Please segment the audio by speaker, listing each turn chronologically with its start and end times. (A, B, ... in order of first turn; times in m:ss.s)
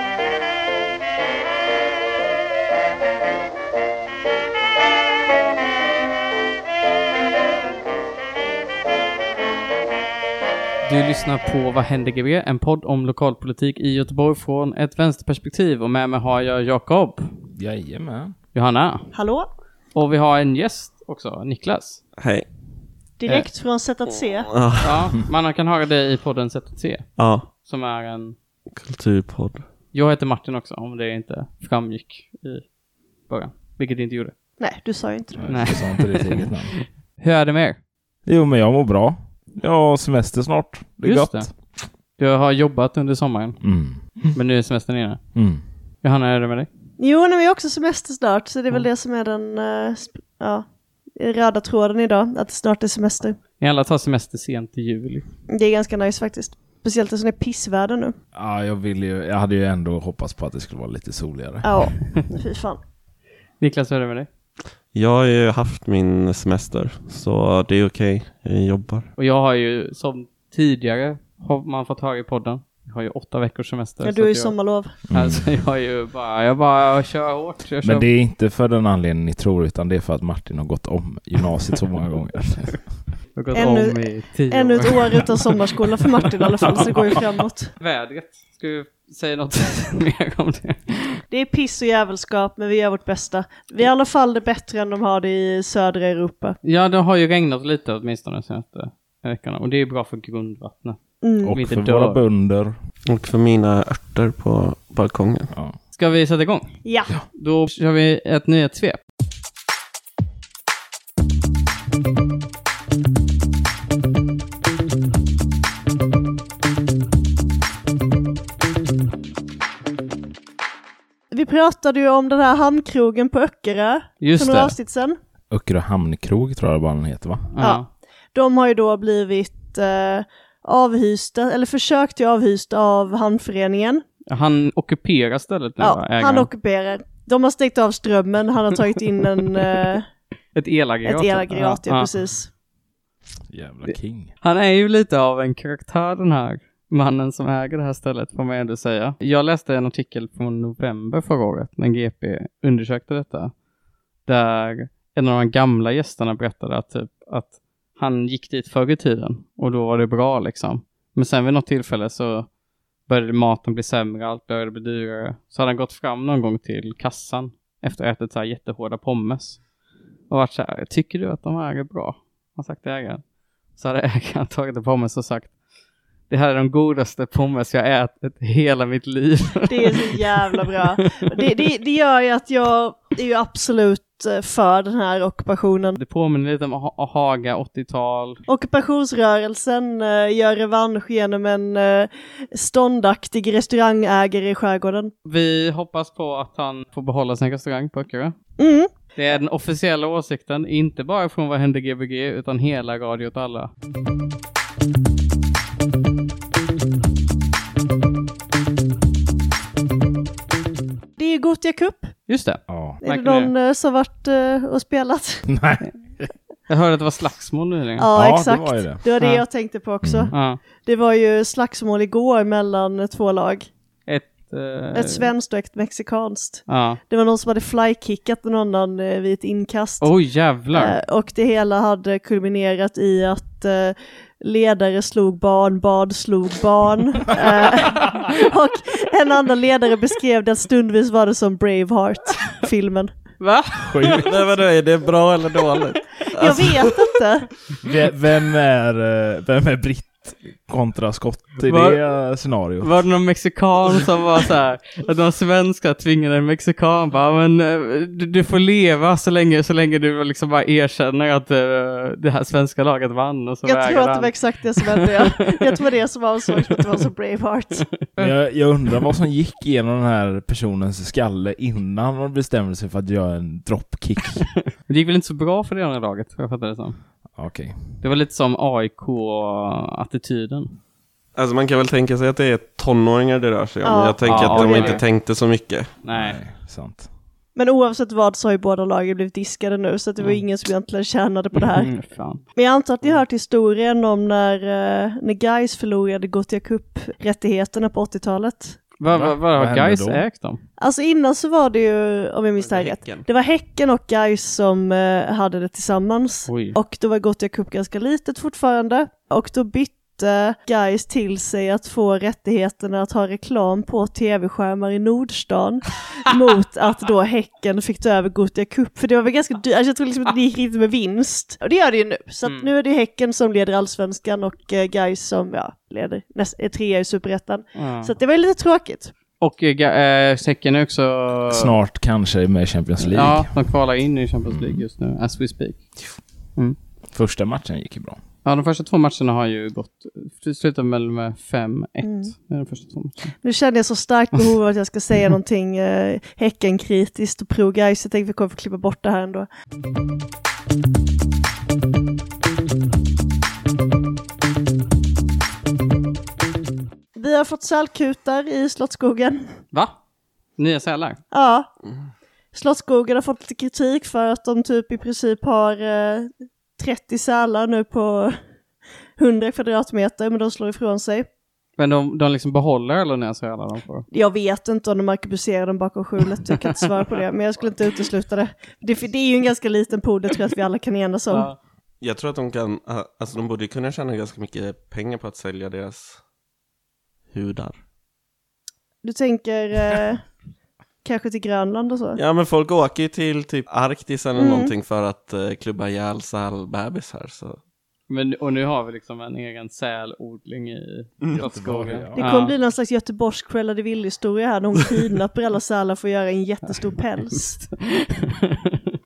0:10.8-0:17.3 A
0:17.5-0:18.4 B
0:18.5-0:19.1 A
0:19.1-0:19.5 C
0:19.9-0:22.0 A
0:22.2-0:22.5 D
0:23.2-0:24.5 C
0:24.5-0:24.9 D
0:24.8-0:28.4 A
0:27.2-0:27.5 D
0:28.8-0:29.6 D
0:29.9-0:32.6 A
0:33.3-0:34.3 A
0:34.6-0:35.7 C
0:35.3-0:36.7 B
0:35.5-0:37.8 A
0:38.2-0:41.6 B
0:41.0-0:41.5 A
0:42.2-0:43.6 A
0:43.6-0:44.4 B
0:44.3-0:45.2 A
0:45.3-0:45.6 B
0:46.0-0:46.7 A
0:47.0-0:50.6 C
0:51.2-0:53.4 C
0:53.6-0:55.2 A
0:55.5-0:58.2 C
0:58.3-1:01.7 B
1:01.6-1:02.8 C
1:03.6-1:04.3 A
1:04.9-1:09.1 D
1:09.2-1:18.1 A
1:14.0-1:15.0 C
1:15.1-1:15.5 B
1:17.8-1:22.9 B
1:23.3-1:25.2 A
1:23.5-1:27.7 C
1:27.8-1:31.2 A
1:31.3-1:36.6 C
1:36.6-1:41.0 A
1:41.2-1:41.5 C
1:41.4-1:42.8 B
1:41.5-1:42.2 A
1:43.1-1:45.5 D
1:45.9-1:46.8 A
1:46.8-1:47.1 C
1:47.3-1:49.0 A
2:01.3-2:05.2 C
2:04.2-2:04.7 A
2:05.5-2:07.5 B
2:07.5-2:07.9 A
2:07.6-2:14.0 C
2:14.3-2:16.5 A
2:15.8-2:20.0 C
2:20.5-2:22.1 A
2:21.0-2:22.5 C
2:23.5-2:24.3 B
2:23.8-2:33.5 A
2:34.2-2:42.5 A
2:43.1-2:49.6 A
2:50.3-2:53.2 A
2:53.7-2:55.5 A
2:56.3-3:00.2 A
2:59.7-3:06.0 C
3:06.0-3:08.4 A
3:08.5-3:15.1 C
3:15.2-3:18.4 A
3:18.6-3:18.9 C
3:19.1-3:23.7 A
3:31.2-3:32.1 C
3:32.3-3:33.5 A
3:32.7-3:33.0 B
3:33.0-3:35.5 C
3:35.5-3:36.2 B
3:36.7-3:38.1 A
3:38.0-3:43.7 C
3:38.1-3:39.0 B
3:39.2-3:39.4 A
3:40.0-3:40.3 B
3:40.3-3:40.6 A
3:44.1-3:45.3 A
3:44.9-3:50.1 C
3:46.7-3:47.0 A
3:50.0-3:51.0 A
3:50.7-4:03.1 C
4:03.4-4:04.2 A
4:03.8-4:04.5 B
4:04.2-4:06.9 D
4:06.3-4:07.5 C
4:07.8-4:13.0 B
4:11.6-4:12.0 A
4:12.8-4:25.0 A
4:23.6-4:27.9 C
4:28.1-4:28.3 A
4:28.2-4:34.5 B
4:34.8-4:37.0 A
4:37.3-4:38.0 B
4:38.0-4:40.8 A
4:41.4-4:45.9 D
4:43.8-4:45.0 C
4:44.2-4:45.0 A
4:46.0-4:46.4 A
4:46.1-4:47.1 B
4:47.6-4:51.9 C
4:51.5-4:52.4 A
4:52.5-4:58.8 C
4:59.0-5:00.6 A
4:59.1-5:00.2 B
5:00.8-5:29.1 C
5:02.6-5:03.2 D
5:06.4-5:06.8 A
5:22.4-5:22.7 A
5:27.7-5:28.1 A
5:29.4-5:31.8 A
5:31.5-5:33.5 B
5:33.0-5:35.8 A
5:34.5-5:34.8 B
5:37.1-5:38.2 B
5:38.4-5:43.3 A
5:42.0-5:42.3 C
5:43.4-5:49.5 C
5:57.2-5:59.5 C
5:59.7-6:00.0 A
6:00.6-6:01.2 A
6:01.3-6:01.7 C
6:02.5-6:08.4 C
6:09.2-6:11.3 C
6:11.8-6:14.0 A
6:14.1-6:21.5 C
6:21.3-6:21.6 A
6:22.0-6:26.2 D
6:27.3-6:27.8 D
6:29.0-6:30.2 C
6:31.0-6:32.2 C
6:32.2-6:37.6 D
6:34.4-6:34.7 C
6:38.1-6:42.5 A
6:41.2-6:41.4 D
6:41.3-6:42.2 B
6:42.2-6:47.6 C
6:47.7-6:48.3 A